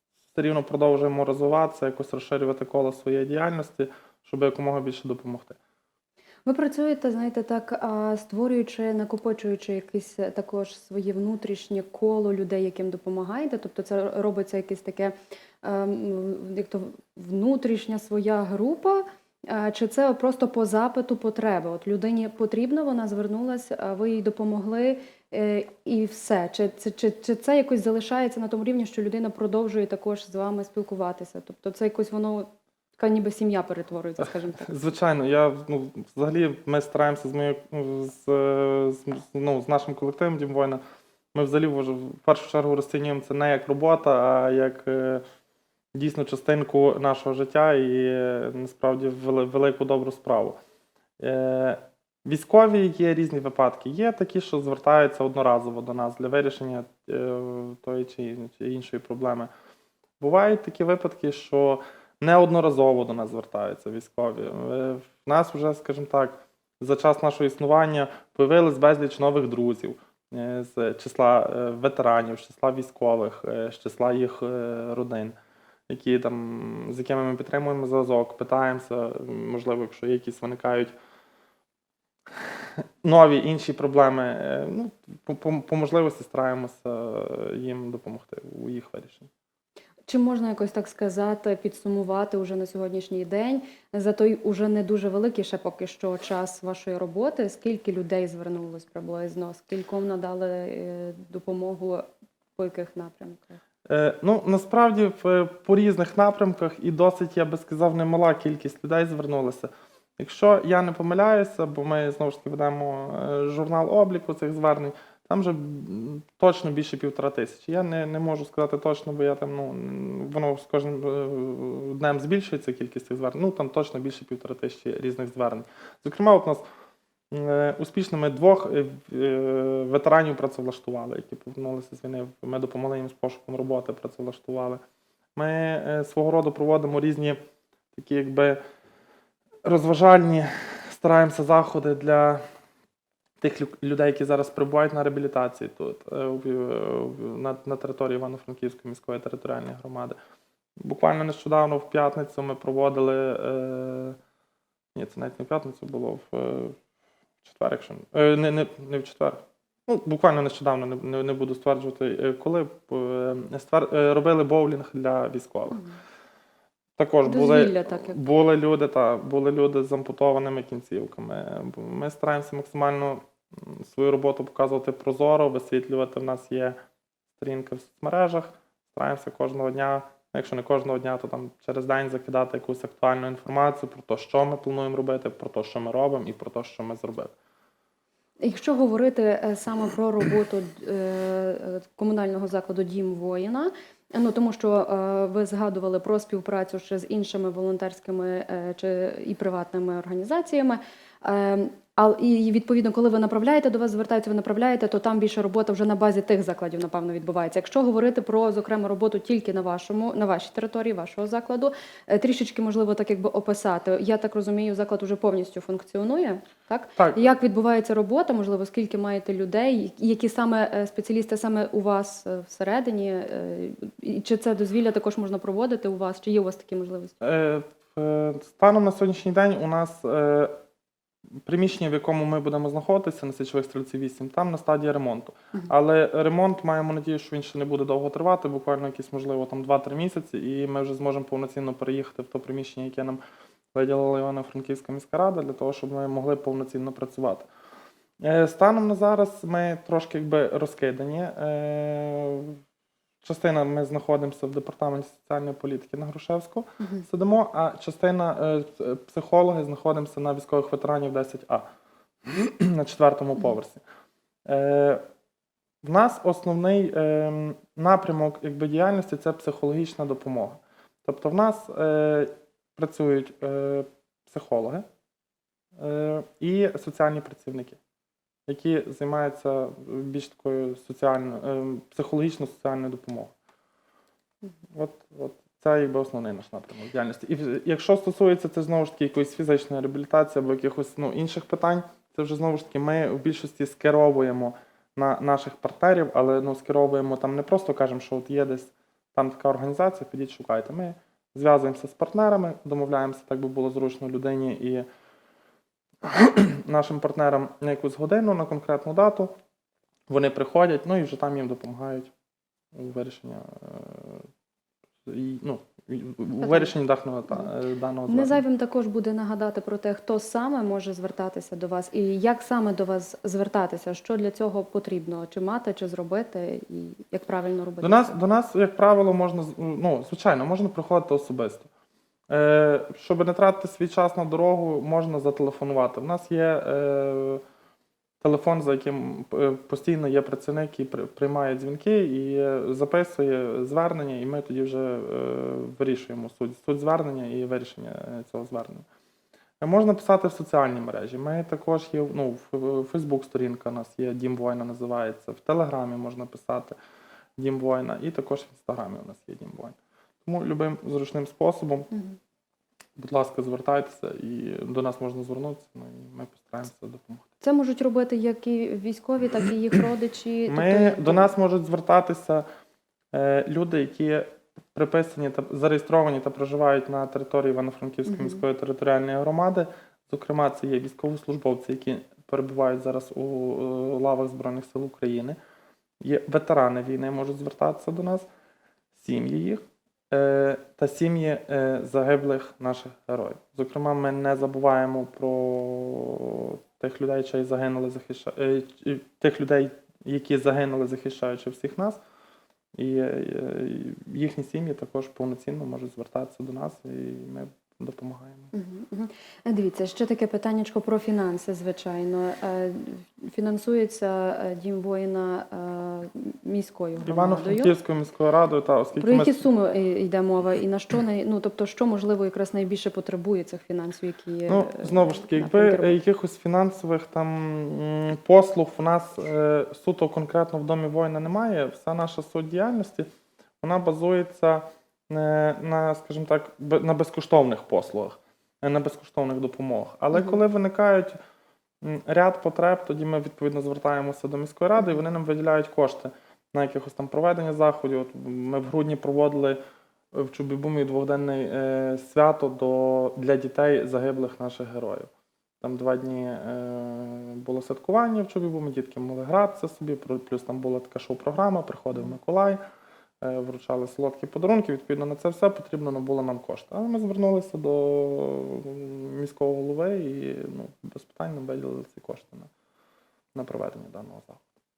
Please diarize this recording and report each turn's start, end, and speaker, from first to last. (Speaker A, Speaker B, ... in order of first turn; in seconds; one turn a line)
Speaker A: 0.3-5.6
Speaker B: 6.5-34.9
Speaker A: 34.6-40.8
Speaker A: 41.3-45.2
Speaker A: 45.9-50.6
Speaker A: 51.2-59.5
Speaker A: 60.2-75.3
Speaker A: 75.9-80.9
Speaker A: 82.4-89.3
Speaker B: 90.1-102.0
Speaker B: 102.6-103.6
Speaker A: 103.9-126.6
Speaker A: 127.3-134.8
Speaker A: 135.4-137.4
Speaker A: 137.9-138.6
Speaker A: 139.6-142.4
Speaker A: 143.4-150.2
Speaker A: 150.8-154.2
Speaker A: 154.9-156.8
Speaker A: 157.4-165.8
Speaker A: 167.0-176.8
Speaker B: 167.2-168.2
Speaker A: 177.4-187.3
Speaker B: 188.4-227.2
Speaker A: 227.2-230.5
Speaker A: 231.4-243.2
Speaker A: 243.7-247.5
Speaker A: 248.2-252.6
Speaker A: 253.2-261.7
Speaker B: 256.8-257.1
Speaker A: 262.2-263.8
Speaker A: 264.5-265.0
Speaker A: 265.8-274.9
Speaker A: 275.8-277.8
Speaker A: 278.5-283.3
Speaker A: 284.7-304.9
Speaker A: 306.0-309.3
Speaker A: 310.1-312.1
Speaker A: 312.7-314.3
Speaker A: 315.1-318.4
Speaker B: 316.4-316.7
Speaker B: 318.1-328.1
Speaker A: 327.8-331.7
Speaker A: 332.3-337.4
Speaker A: 338.2-348.9
Speaker A: 349.6-356.8
Speaker A: 357.4-361.9
Speaker B: 361.9-362.2
Speaker A: 363.0-367.2
Speaker B: 367.4-371.3
Speaker A: 370.5-372.4
Speaker A: 373.1-385.4
Speaker B: 378.1-378.4
Speaker A: 386.0-388.3
Speaker A: 389.0-402.0
Speaker A: 402.8-408.5
Speaker B: 408.5-417.7
Speaker A: 417.1-419.4
Speaker B: 419.0-426.0
Speaker A: 424.5-433.1
Speaker A: 433.6-441.2
Speaker A: 441.8-449.6
Speaker A: 450.1-455.1
Speaker A: 455.6-462.6
Speaker A: 463.2-472.5
Speaker A: 473.4-474.4